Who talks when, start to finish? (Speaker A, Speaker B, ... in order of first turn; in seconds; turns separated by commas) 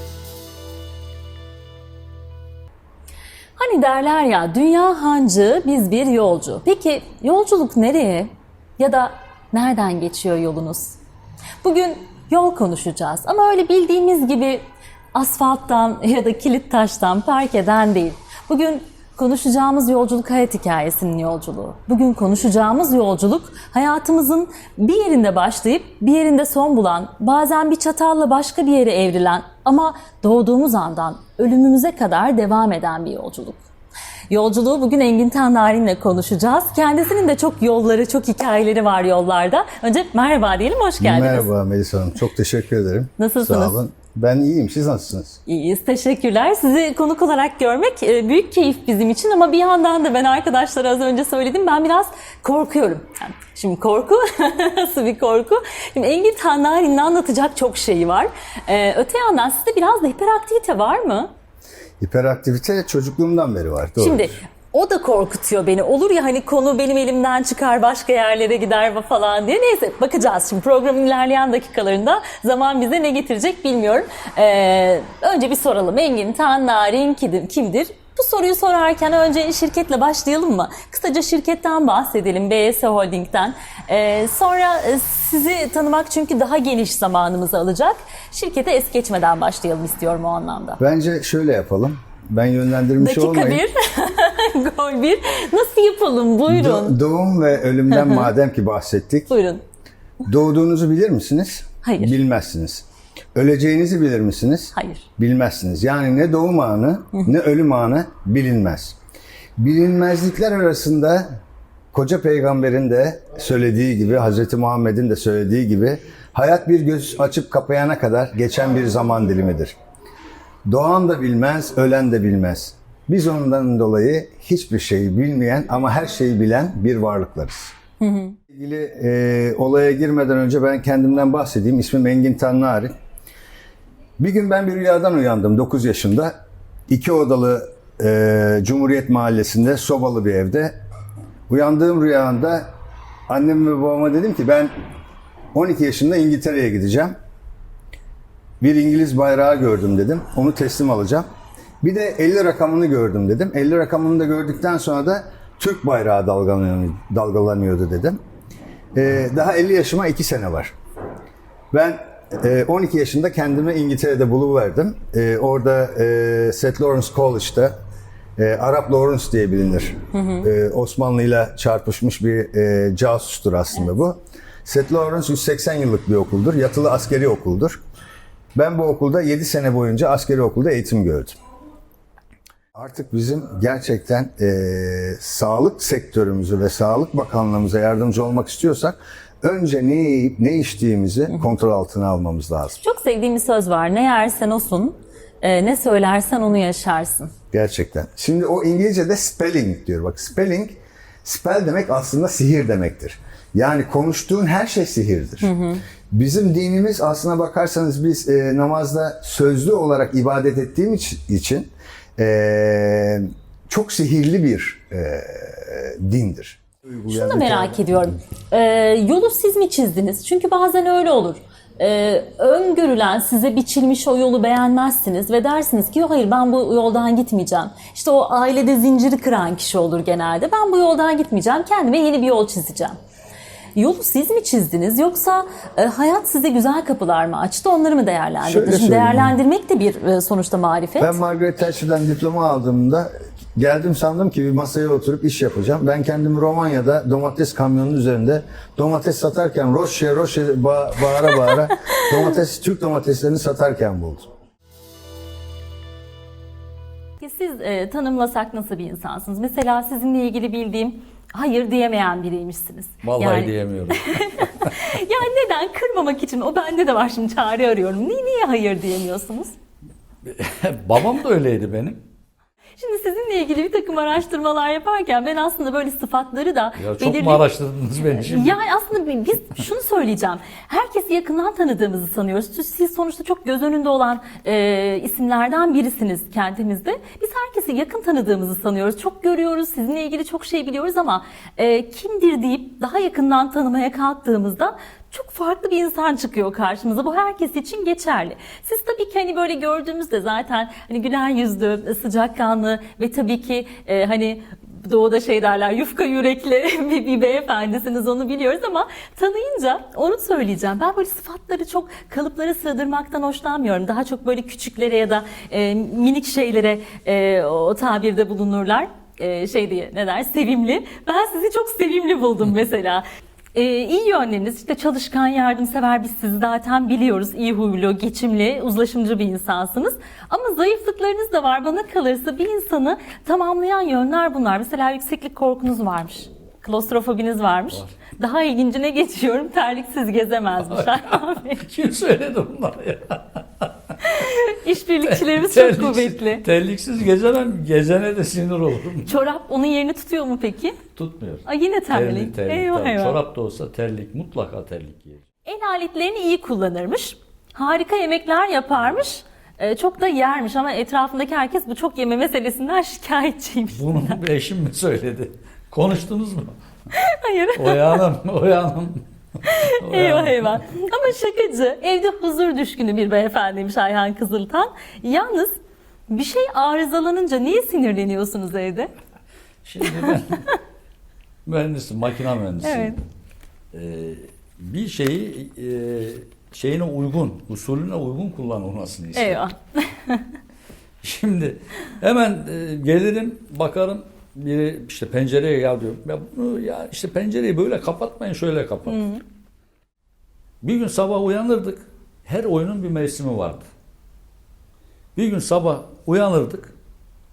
Speaker A: 3.6-11.0, Speaker A: 11.6-33.6, Speaker A: 34.3-41.5, Speaker B: 41.0-45.4, Speaker A: 43.2-43.8, Speaker A: 45.5-61.3, Speaker B: 62.0-64.3, Speaker A: 64.0-90.8, Speaker B: 90.8-93.6, Speaker A: 93.0-97.0, Speaker B: 96.5-99.3, Speaker A: 97.9-98.3, Speaker A: 99.3-99.6, Speaker B: 100.2-109.0, Speaker A: 101.8-102.2, Speaker A: 104.7-105.0, Speaker B: 109.6-111.3, Speaker B: 111.9-119.8, Speaker B: 120.7-127.7, Speaker A: 128.0-128.3, Speaker B: 128.5-132.9, Speaker B: 134.2-136.3, Speaker B: 136.9-140.8, Speaker B: 141.5-142.7, Speaker B: 143.3-144.7, Speaker B: 145.5-147.2, Speaker B: 148.6-151.2, Speaker B: 151.8-158.2, Speaker B: 158.9-160.7, Speaker B: 161.7-167.7, Speaker B: 168.4-177.8, Speaker A: 170.1-170.5, Speaker B: 178.5-181.4, Speaker B: 182.7-192.8, Speaker A: 192.8-197.2, Speaker B: 197.5-205.5, Speaker A: 205.4-205.8, Speaker B: 206.1-218.1, Speaker A: 217.1-233.0, Speaker A: 233.8-241.2, Speaker B: 238.4-239.3, Speaker B: 241.0-254.2, Speaker A: 257.2-263.5, Speaker C: 263.0-264.7, Speaker A: 264.1-269.5, Speaker C: 270.2-272.0, Speaker A: 272.8-277.4, Speaker C: 276.8-278.6, Speaker A: 278.1-323.0, Speaker A: 323.5-341.6, Speaker C: 340.6-343.7, Speaker A: 344.0-346.4, Speaker C: 345.1-349.1, Speaker A: 349.1-350.8, Speaker C: 350.9-355.2, Speaker A: 351.4-353.2, Speaker A: 355.4-364.2, Speaker C: 363.7-366.6, Speaker A: 367.0-368.0, Speaker C: 367.5-369.0, Speaker A: 369.5-375.6, Speaker C: 369.7-370.6, Speaker A: 376.1-378.9, Speaker C: 379.6-380.4, Speaker A: 379.8-380.1, Speaker C: 381.4-382.9, Speaker A: 382.6-383.0, Speaker C: 383.7-389.4, Speaker A: 389.1-390.3, Speaker C: 391.0-399.0, Speaker A: 398.9-399.2, Speaker C: 400.6-403.7, Speaker C: 405.1-406.7